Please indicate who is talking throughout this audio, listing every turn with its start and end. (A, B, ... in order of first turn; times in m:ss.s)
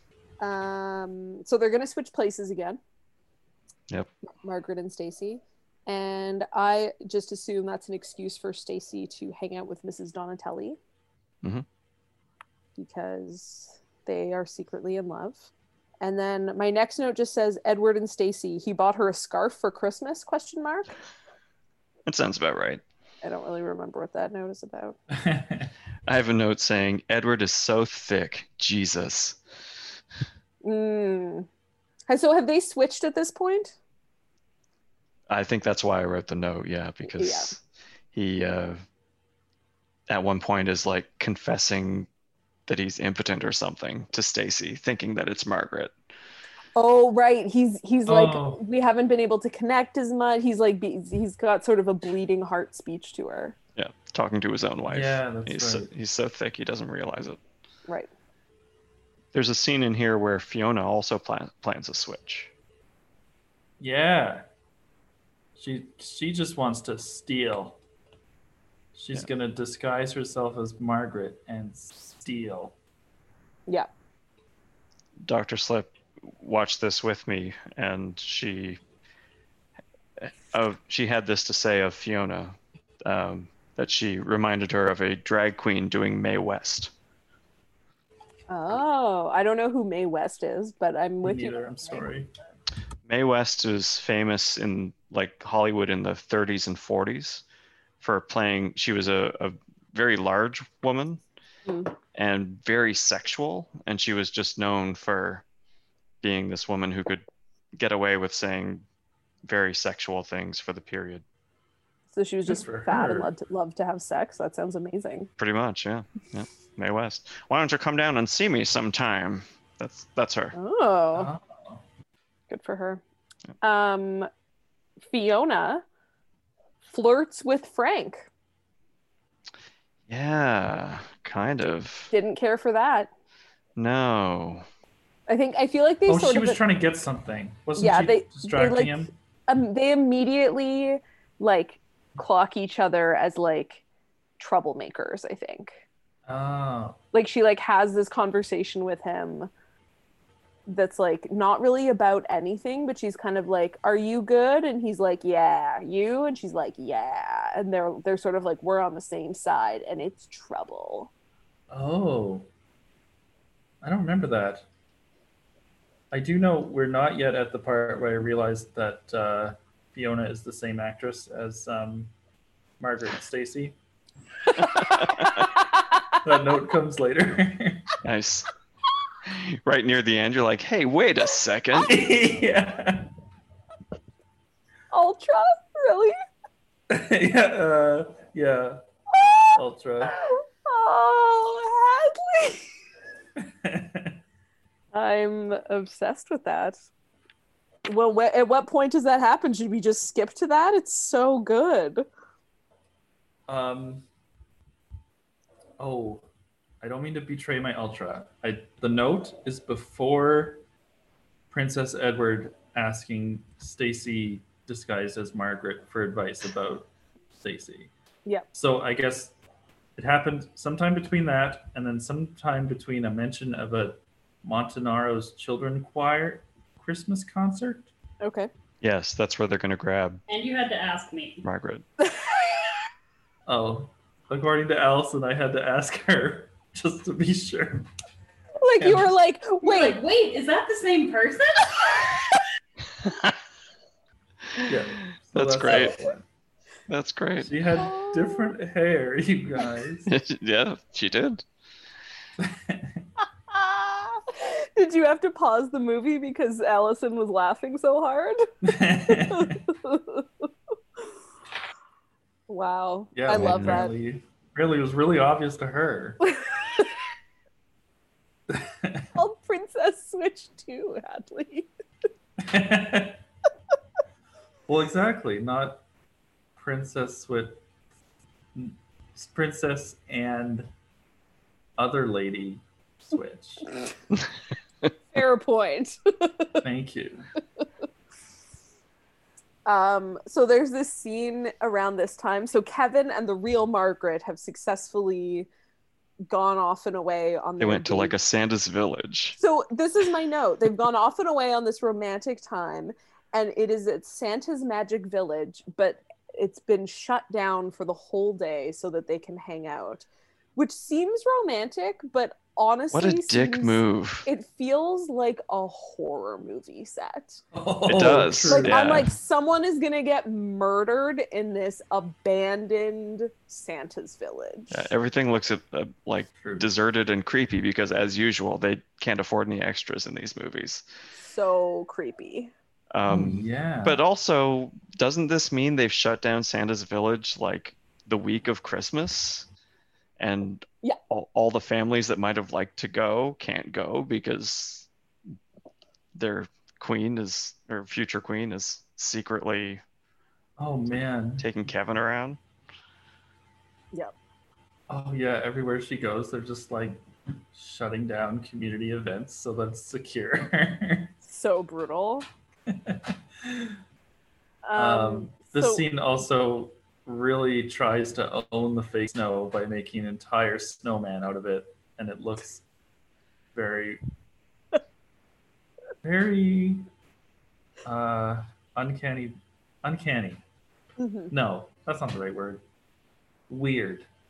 0:00.4-0:02.8 A
0:04.4-0:10.8 A
0:12.8-0:15.5 A
0:16.0-0:20.9 A
0:22.1-0:22.8 B
0:23.2-0:25.0 A
0:25.1-0:25.7 C
0:26.1-0:29.4 B
0:30.6-0:31.5 A
0:32.1-0:33.8 A
0:35.3-0:37.6 B
0:37.1-0:37.5 A
0:38.1-0:38.8 B
0:40.1-0:42.1 B
0:42.7-0:45.9 B
0:46.8-0:53.6 A
0:48.1-0:48.6 C
0:53.8-0:57.4 B
0:54.9-0:55.9 C
0:59.3-1:02.5 B
1:03.8-1:04.4 C
1:05.6-1:07.8 C
1:08.9-1:12.8 C
1:15.2-1:18.8 B
1:20.2-1:26.9 B
1:28.5-1:32.0 A
1:31.2-1:32.3 C
1:33.1-1:37.4 B
1:38.0-1:41.2 B
1:41.7-1:41.9 A
1:42.1-1:45.4 B
1:46.2-1:47.2 B
1:47.8-1:48.8 B
1:49.5-1:51.2 B
1:52.1-1:55.3 A
1:52.5-1:53.3 C
1:55.4-2:00.6 B
2:00.6-2:01.3 A
2:01.1-2:01.8 C
2:02.5-2:03.0 A
2:03.6-2:04.3 A
2:05.1-2:05.8 A
2:06.9-2:08.3 A
2:10.1-2:12.1 B
2:12.1-2:13.1 A
2:13.8-2:14.6 B
2:15.3-2:16.6 A
2:16.1-2:19.1 C
2:17.8-2:23.8 A
2:24.4-2:25.8 A
2:26.3-2:27.0 C
2:27.1-2:29.5 A
2:30.7-2:41.1 A
2:41.7-2:42.5 C
2:43.8-2:44.7 C
2:46.1-2:52.1 C
2:52.8-2:53.8 C
2:54.8-2:55.4 B
2:55.9-2:56.2 A
2:56.2-2:58.0 C
2:58.0-2:58.5 B
2:59.2-3:01.9 B
3:01.8-3:03.1 C
3:04.9-3:06.2 A
3:06.9-3:08.8 C
3:09.1-3:09.6 A
3:09.6-3:10.2 C
3:10.2-3:12.6 A
3:13.4-3:14.2 C
3:14.9-3:16.8 A
3:17.9-3:22.0 A
3:23.5-3:24.1 C
3:25.8-3:26.3 C
3:26.8-3:30.6 C
3:31.5-3:37.9 C
3:38.5-3:39.4 C
3:40.0-3:47.9 C
3:48.2-3:48.5 A
3:48.8-3:50.2 B
3:50.3-3:51.4 D
3:51.4-3:51.8 B
3:52.0-3:52.3 A
3:53.5-3:57.9 C
3:58.6-4:00.0 A
3:58.8-3:59.1 C
3:59.6-4:02.0 D
4:04.7-4:06.2 C
4:05.3-4:06.0 B
4:06.9-4:07.5 B
4:07.4-4:10.1 C
4:07.8-4:08.6 A
4:10.1-4:11.4 B
4:12.4-4:13.0 C
4:13.5-4:20.4 A
4:18.6-4:19.6 C
4:22.5-4:23.9 A
4:23.1-4:26.2 C
4:23.3-4:23.8 B
4:26.3-4:26.9 A
4:28.5-4:29.1 C
4:29.2-4:31.7 A
4:32.4-4:33.2 C
4:34.7-4:35.8 C
4:36.6-4:37.6 C
4:38.6-4:40.7 C
4:41.8-4:43.8 C
4:45.1-4:46.6 A
4:46.6-4:47.3 C
4:49.7-4:55.5 A
4:56.3-4:58.1 A
4:57.6-4:59.4 B
4:59.4-5:17.4 A
5:12.9-5:14.3 B
5:17.5-5:19.0 C
5:17.9-5:19.1 B
5:18.5-5:24.9 A
5:24.7-5:30.8 B
5:26.4-5:26.7 C
5:31.2-5:32.5 A
5:32.9-5:39.5 B
5:33.1-5:34.0 C
5:40.2-5:44.9 B
5:46.2-5:49.8 B
5:50.6-5:51.5 C
5:51.4-5:52.4 B
5:54.9-6:01.1 C
6:01.2-6:02.3 A
6:02.7-6:03.8 C
6:04.6-6:05.9 A
6:04.8-6:12.6 C
6:13.5-6:14.0 C
6:16.0-6:16.9 C
6:17.8-6:20.4 C
6:21.0-6:21.3 A
6:21.3-6:22.6 C
6:23.5-6:24.1 C